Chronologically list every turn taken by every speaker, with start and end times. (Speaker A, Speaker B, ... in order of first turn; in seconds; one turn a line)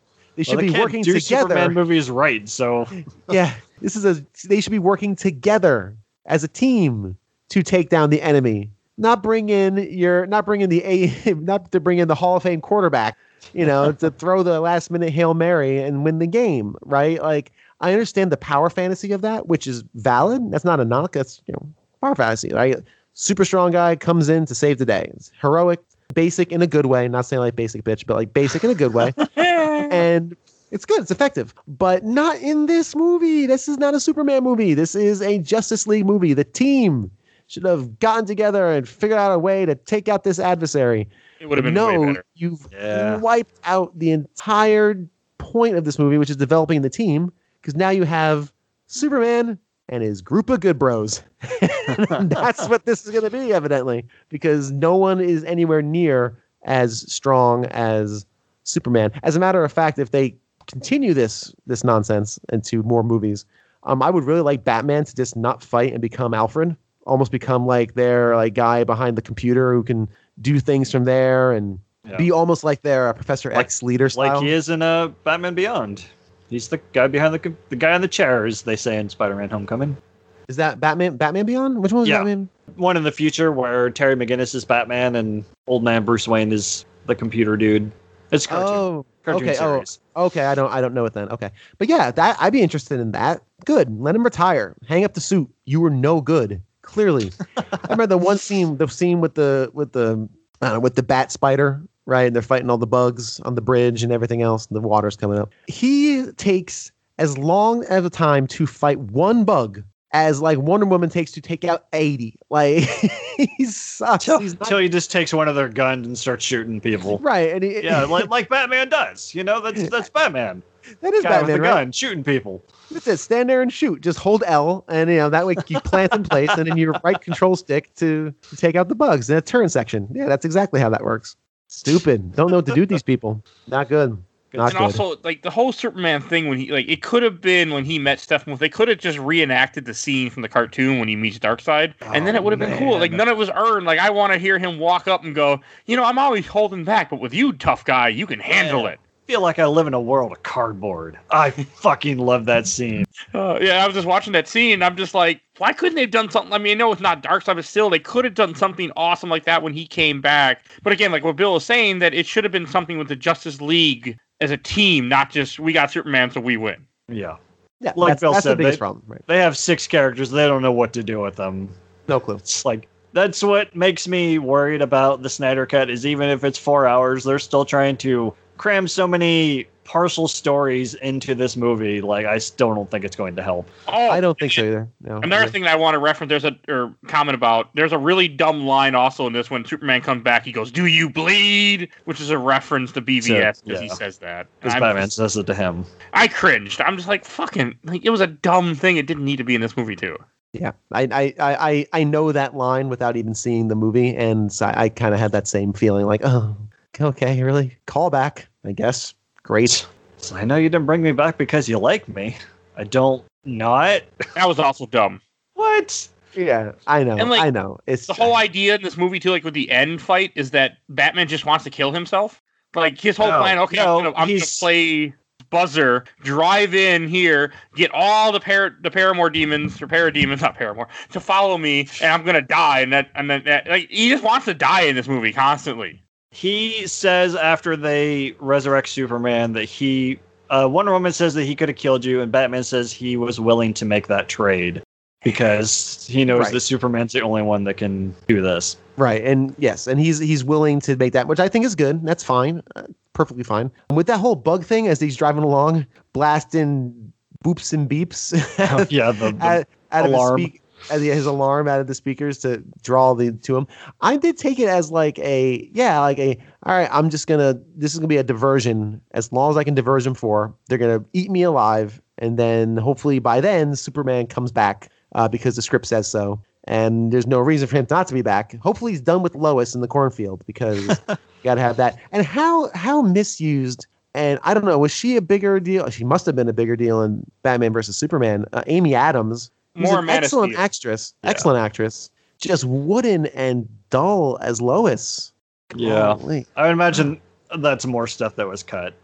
Speaker A: 0.4-1.8
Speaker B: 0.5-3.0
Speaker A: 3.3-29.2
Speaker C: 29.3-30.0
Speaker A: 29.9-74.5
Speaker C: 41.4-42.2
Speaker B: 42.7-43.2
Speaker B: 51.9-52.4
Speaker B: 73.5-80.0
Speaker A: 80.5-82.5
Speaker B: 82.0-90.0
Speaker A: 88.5-114.8
Speaker B: 97.6-97.9
Speaker B: 114.2-117.2
Speaker A: 117.2-118.3
Speaker B: 117.8-120.6
Speaker A: 119.8-120.0
Speaker A: 121.0-121.8
Speaker B: 121.2-122.7
Speaker A: 122.9-135.0
Speaker B: 125.8-126.7
Speaker B: 134.5-134.8
Speaker C: 134.7-149.0
Speaker B: 142.0-143.2
Speaker A: 142.4-143.0
Speaker B: 148.5-153.1
Speaker C: 153.3-166.8
Speaker B: 167.1-167.4
Speaker A: 167.8-169.2
Speaker B: 168.0-171.8
Speaker A: 172.1-172.4
Speaker B: 172.4-183.7
Speaker C: 183.9-184.6
Speaker A: 184.1-185.5
Speaker C: 185.2-195.1
Speaker B: 193.2-194.0
Speaker B: 194.6-195.9
Speaker C: 196.1-200.2
Speaker A: 200.6-209.8
Speaker B: 210.2-214.1
Speaker C: 214.4-215.2
Speaker B: 215.6-216.1
Speaker A: 216.3-218.3
Speaker C: 217.2-217.5
Speaker C: 218.1-236.0
Speaker B: 223.2-224.7
Speaker B: 236.3-248.8
Speaker A: 246.3-246.6
Speaker A: 249.0-296.5
Speaker B: 258.6-260.6
Speaker B: 280.8-281.1
Speaker C: 289.7-290.6
Speaker B: 295.8-298.9